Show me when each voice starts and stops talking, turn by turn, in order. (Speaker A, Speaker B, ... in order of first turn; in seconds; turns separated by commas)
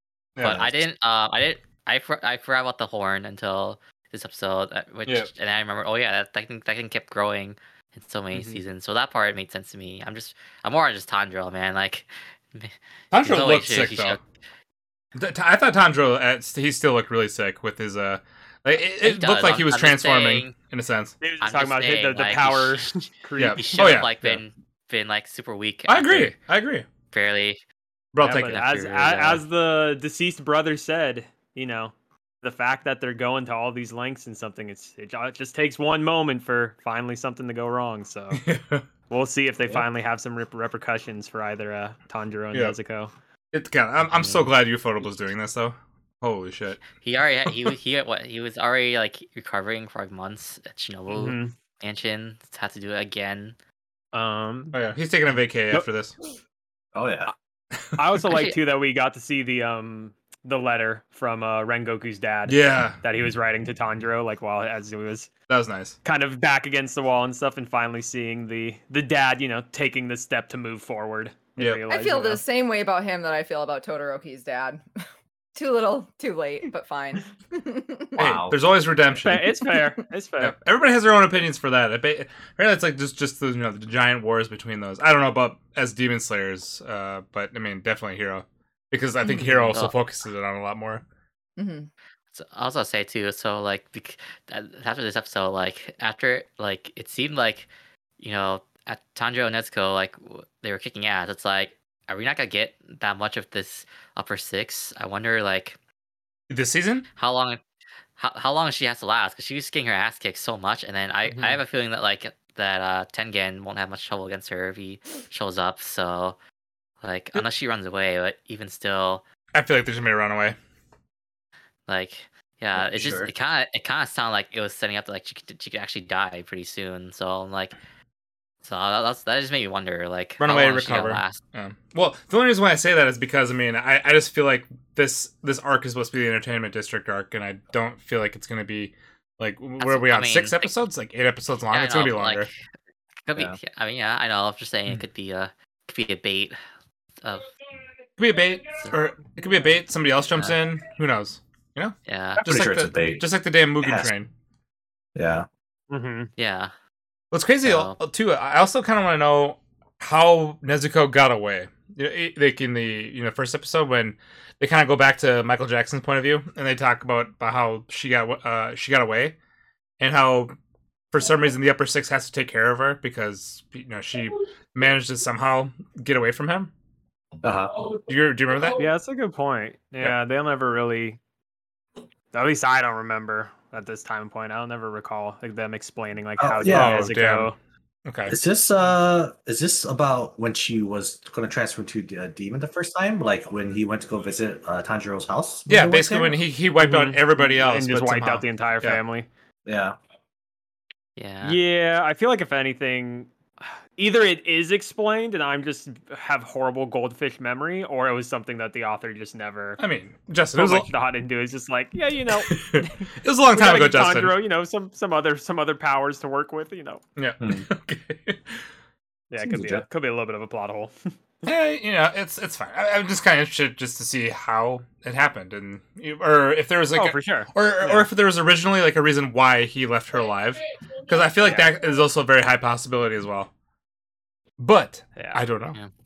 Speaker A: 0.4-0.8, Speaker B: 0.4-14.2, Speaker C: 8.3-8.6, Speaker A: 13.1-14.2, Speaker A: 15.2-21.2, Speaker B: 18.9-20.6, Speaker C: 21.2-23.9, Speaker B: 21.4-22.9, Speaker A: 23.4-24.4, Speaker B: 23.6-26.4, Speaker A: 25.9-26.9, Speaker B: 27.1-27.6, Speaker A: 28.1-29.1, Speaker C: 28.2-38.4, Speaker B: 28.3-29.4, Speaker A: 38.4-38.9, Speaker C: 39.1-43.1, Speaker A: 43.5-46.9, Speaker B: 44.1-44.6, Speaker B: 46.9-53.6, Speaker C: 51.1-51.5, Speaker C: 54.1-54.8, Speaker A: 54.7-56.1, Speaker D: 56.9-57.3, Speaker C: 58.0-65.3, Speaker A: 62.5-63.0, Speaker A: 65.5-66.0, Speaker C: 66.0-72.4, Speaker A: 71.6-71.8, Speaker E: 71.9-74.8, Speaker E: 75.5-78.4, Speaker D: 78.2-78.6, Speaker A: 78.2-79.6, Speaker C: 79.2-80.5, Speaker A: 80.4-91.0, Speaker E: 89.2-89.5, Speaker B: 89.4-89.9, Speaker E: 91.6-91.9, Speaker B: 92.3-105.8, Speaker A: 106.5-107.1, Speaker B: 107.2-107.6, Speaker B: 108.2-116.4, Speaker B: 117.0-119.2, Speaker A: 119.5-120.6, Speaker B: 121.9-127.8, Speaker D: 122.8-123.3, Speaker B: 128.6-131.4, Speaker A: 130.4-142.5, Speaker B: 139.8-140.8, Speaker B: 141.7-142.6, Speaker B: 143.2-146.6, Speaker B: 147.2-147.5, Speaker A: 148.2-154.3, Speaker C: 149.4-149.8, Speaker B: 152.1-152.4, Speaker D: 152.4-153.2, Speaker D: 153.8-154.1, Speaker D: 155.2-155.5, Speaker C: 155.9-156.3, Speaker B: 156.4-156.7, Speaker A: 157.3-169.4, Speaker B: 157.6-158.0, Speaker A: 170.0-170.6, Speaker A: 171.1-176.7, Speaker D: 177.4-177.9, Speaker A: 178.1-178.8, Speaker C: 178.8-181.2, Speaker C: 182.3-187.6, Speaker D: 186.4-187.0, Speaker A: 186.7-187.5, Speaker A: 188.1-188.4, Speaker D: 188.3-196.4, Speaker A: 195.7-199.0, Speaker C: 196.8-199.3, Speaker D: 199.7-200.0, Speaker B: 201.2-201.6, Speaker C: 201.4-209.8, Speaker A: 209.8-210.9, Speaker C: 210.5-217.0, Speaker A: 212.5-214.4, Speaker A: 217.2-218.7, Speaker D: 217.4-217.7, Speaker C: 219.3-220.9, Speaker D: 219.4-219.8, Speaker A: 221.5-233.5, Speaker C: 226.9-228.1, Speaker C: 231.4-231.7, Speaker A: 234.6-235.8, Speaker C: 235.2-235.4